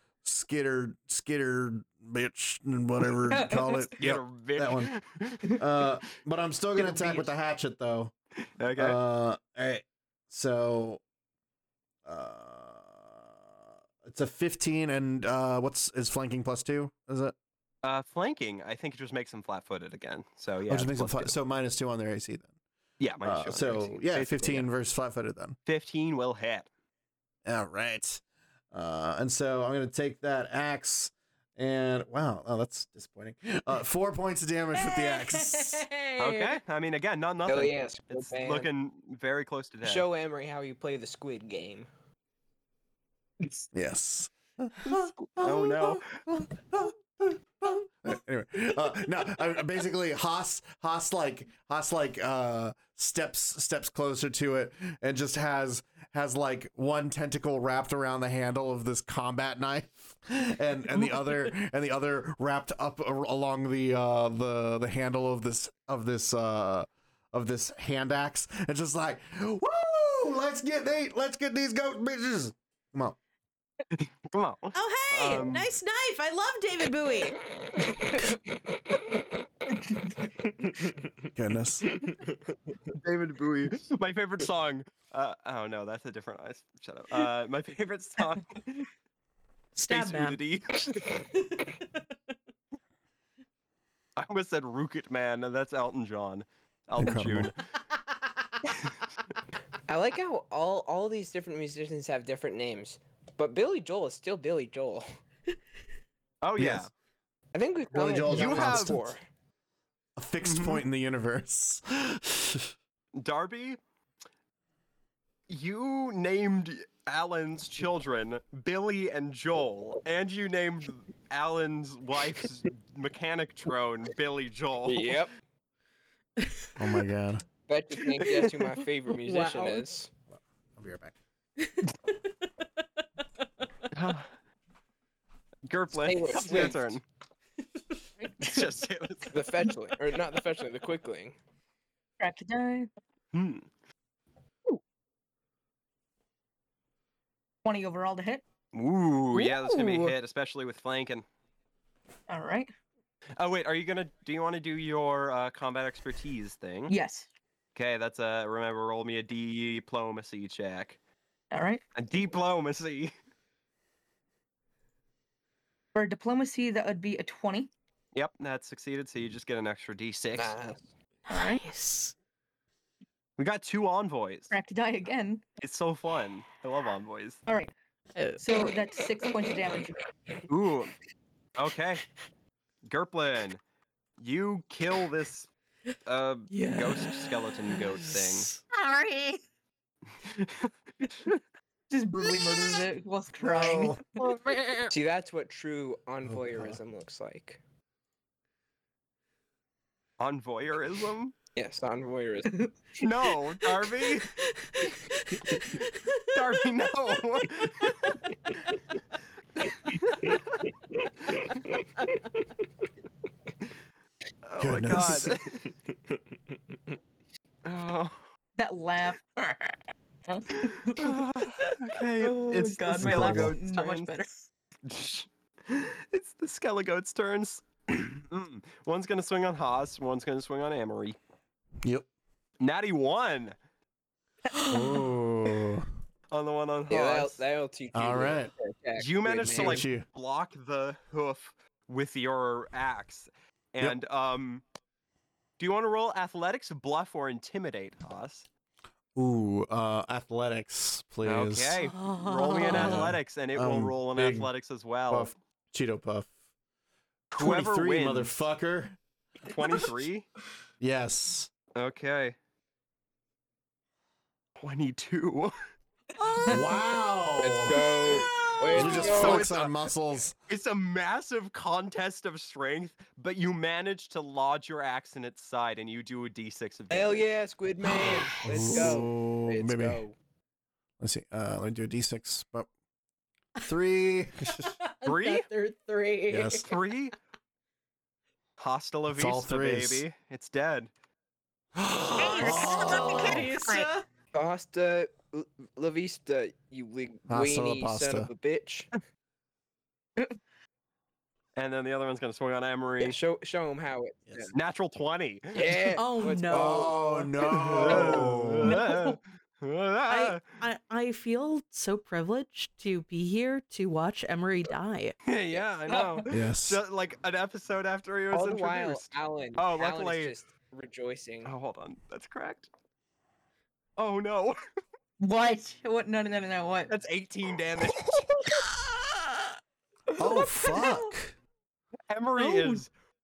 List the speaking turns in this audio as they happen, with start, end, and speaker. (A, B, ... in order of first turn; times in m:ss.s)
0:00.2-0:04.9 A
0:04.0-0:05.6 B
0:05.5-0:08.1 A
0:06.8-0:07.2 B
0:08.6-0:09.0 B
0:08.8-0:11.0 A
0:12.0-0:13.3 A
0:14.0-0:17.4 A
0:17.8-0:21.4 B
0:20.7-0:22.5 A
0:23.0-0:24.7 B
0:23.2-0:25.6 A
0:25.7-0:26.7 B
0:27.4-0:35.8 A
0:34.8-0:36.6 C
0:36.2-0:40.1 B
0:37.5-0:38.7 D
0:39.8-0:41.9 D
0:43.7-1:13.2 A
0:44.9-0:46.2 B
1:13.9-1:15.7 B
1:14.7-1:17.4 C
1:21.3-1:21.9 A
1:23.0-1:28.9 B
1:29.8-1:30.4 C
1:29.9-1:31.2 B
1:34.2-1:37.6 B
1:37.0-1:37.5 A
1:39.9-1:45.0 D
1:46.4-1:46.9 B
1:46.6-1:46.9 A
1:47.5-1:49.2 D
1:47.9-1:49.2 A
1:48.3-1:49.0 B
1:50.2-1:52.7 A
1:50.4-1:50.8 B
1:53.2-1:53.8 B
1:55.5-2:05.2 B
2:04.8-2:05.3 D
2:06.4-2:06.7 C
2:06.8-2:07.4 A
2:07.7-2:10.1 D
2:09.1-2:09.9 C
2:10.8-2:11.2 A
2:11.6-2:12.1 C
2:13.9-2:14.3 B
2:15.7-2:17.0 B
2:15.9-2:17.0 D
2:18.4-2:19.4 B
2:19.3-2:21.4 D
2:22.2-2:22.9 E
2:23.3-2:23.7 B
2:27.6-2:28.4 E
2:28.7-2:31.2 B
2:29.4-2:30.1 E
2:32.3-2:32.7 E
2:33.4-2:36.9 B
2:36.9-2:37.3 E
2:37.8-2:41.0 B
2:41.5-2:41.8 E
2:42.0-2:43.1 B
2:45.9-2:47.7 E
2:48.1-2:50.5 B
2:50.4-2:50.8 D
2:51.3-2:52.1 C
2:51.3-2:51.6 E
2:53.4-2:54.5 B
2:54.5-2:55.4 E
2:55.6-2:57.4 B
2:57.5-2:57.7 E
2:58.2-2:58.4 C
2:58.4-3:00.0 E
3:00.5-3:01.0 B
3:01.6-3:02.1 B
3:02.9-3:03.6 B
3:04.2-3:05.5 B
3:06.1-3:08.5 B
3:06.5-3:08.6 C
3:08.7-3:09.4 F
3:10.2-3:11.4 B
3:11.9-3:14.0 E
3:12.1-3:12.8 A
3:13.4-3:14.0 A
3:14.2-3:14.9 B
3:14.9-3:17.6 D
3:16.3-3:16.8 A
3:20.2-3:21.4 B
3:21.6-3:22.6 D
3:23.0-3:24.4 B
3:24.4-3:26.5 C
3:26.3-3:28.2 B
3:34.5-3:35.6 B
3:34.6-3:35.4 A
3:37.6-3:38.2 B
3:38.6-3:39.8 E
3:40.3-3:44.5 E
3:41.0-3:44.1 B
3:42.9-3:43.6 A
3:44.8-3:51.2 B
3:52.6-3:53.6 B
3:54.7-3:55.9 A
3:56.3-3:57.4 B
3:56.9-3:59.9 D
3:57.9-3:58.5 A
3:59.0-4:04.6 B
3:59.5-4:00.0 A
4:05.6-4:08.5 B
4:09.2-4:11.8 A
4:11.2-4:15.3 B
4:11.8-4:13.1 C
4:12.7-4:14.5 A
4:15.1-4:16.3 A
4:17.3-4:18.3 B
4:17.3-4:19.0 A
4:19.4-4:20.3 B
4:20.8-4:21.5 A
4:21.8-4:22.4 B
4:24.6-4:25.5 B
4:26.2-4:26.7 C
4:26.5-4:27.8 A
4:27.4-4:29.5 D
4:27.8-4:29.4 C
4:28.7-4:30.4 A
4:28.9-4:29.9 B
4:30.5-4:37.2 B
4:36.9-4:40.2 D
4:38.3-4:38.8 C
4:38.4-4:40.0 A
4:41.0-4:42.7 A
4:43.6-4:44.7 A
4:44.6-4:46.6 C
4:45.0-4:45.4 B
4:46.3-4:46.7 A
4:46.6-4:47.1 B
4:48.6-4:50.9 B
4:49.1-4:50.0 A
4:51.8-4:53.6 A
4:52.2-4:53.9 F
4:52.3-4:54.0 C
4:54.3-4:58.9 D
4:57.3-4:58.3 A
5:01.6-5:03.2 B
5:03.0-5:04.6 D
5:04.5-5:05.8 B
5:05.5-5:08.3 D
5:06.0-5:07.3 C
5:06.5-5:08.8 A
5:07.7-5:10.4 B
5:08.6-5:09.2 C
5:10.1-5:15.2 C
5:15.3-5:20.3 B
5:16.3-5:16.8 A
5:18.3-5:21.5 D
5:21.4-5:22.7 B
5:24.0-5:24.6 B
5:25.2-5:26.9 E
5:26.9-5:28.5 B
5:28.7-5:29.5 C
5:30.2-5:31.4 A
5:30.4-5:31.1 C
5:32.1-5:32.9 B
5:32.4-5:32.9 C